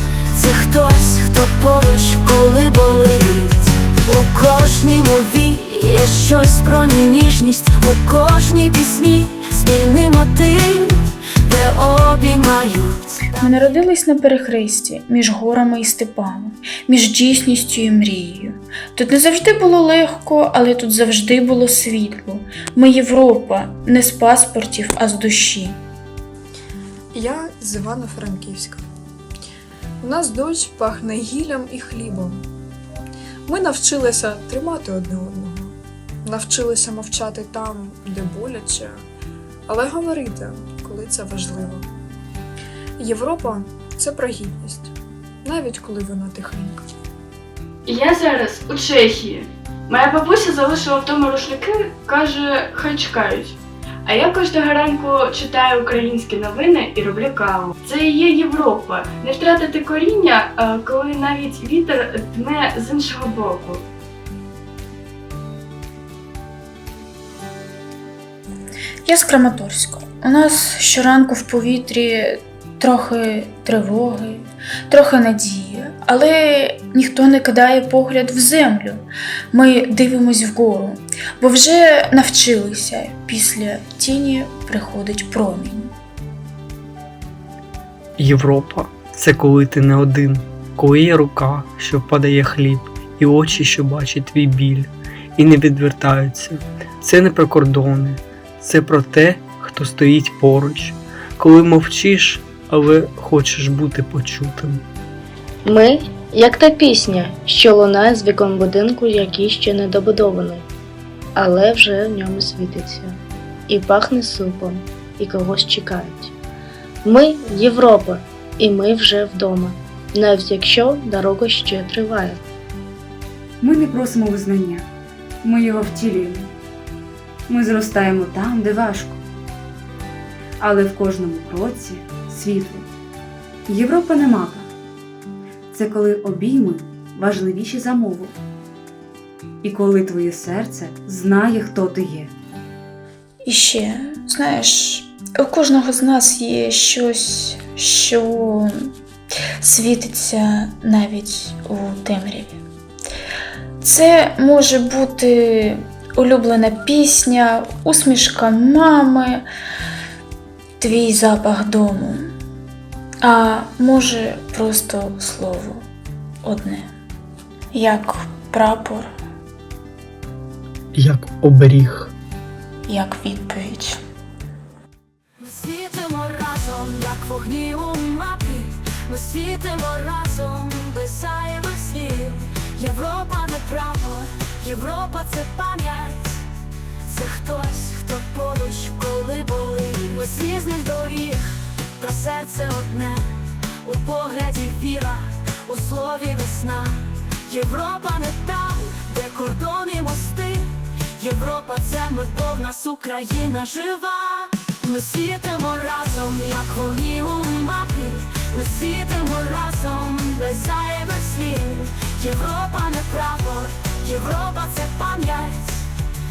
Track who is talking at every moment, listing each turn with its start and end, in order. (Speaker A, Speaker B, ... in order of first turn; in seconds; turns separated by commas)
Speaker A: 0.3-13.5, Speaker B: 13.4-25.8, Speaker C: 27.1-28.8, Speaker C: 30.0-32.4, Speaker C: 33.5-39.0, Speaker C: 39.7-41.9, Speaker C: 43.0-44.9, Speaker C: 45.4-46.9, Speaker D: 47.9-63.8, Speaker B: 69.0-85.9, Speaker E: 88.2-104.8, Speaker F: 105.7-110.7, Speaker F: 111.3-116.3, Speaker F: 117.0-122.4, Speaker G: 123.6-124.8, Speaker G: 125.4-126.5, Speaker G: 127.5-129.2, Speaker G: 130.6-132.9, Speaker G: 133.7-134.7, Speaker G: 135.7-138.4, Speaker G: 139.6-142.3, Speaker B: 143.4-148.7, Speaker B: 149.6-152.6, Speaker B: 153.8-159.4, Speaker B: 160.8-162.2, Speaker B: 163.2-165.8, Speaker B: 166.4-166.9, Speaker B: 167.7-169.1, Speaker E: 170.9-172.1, Speaker B: 172.9-174.0, Speaker A: 175.4-186.4, Speaker A: 187.0-191.4, Speaker A: 192.0-193.3, Speaker A: 193.8-215.9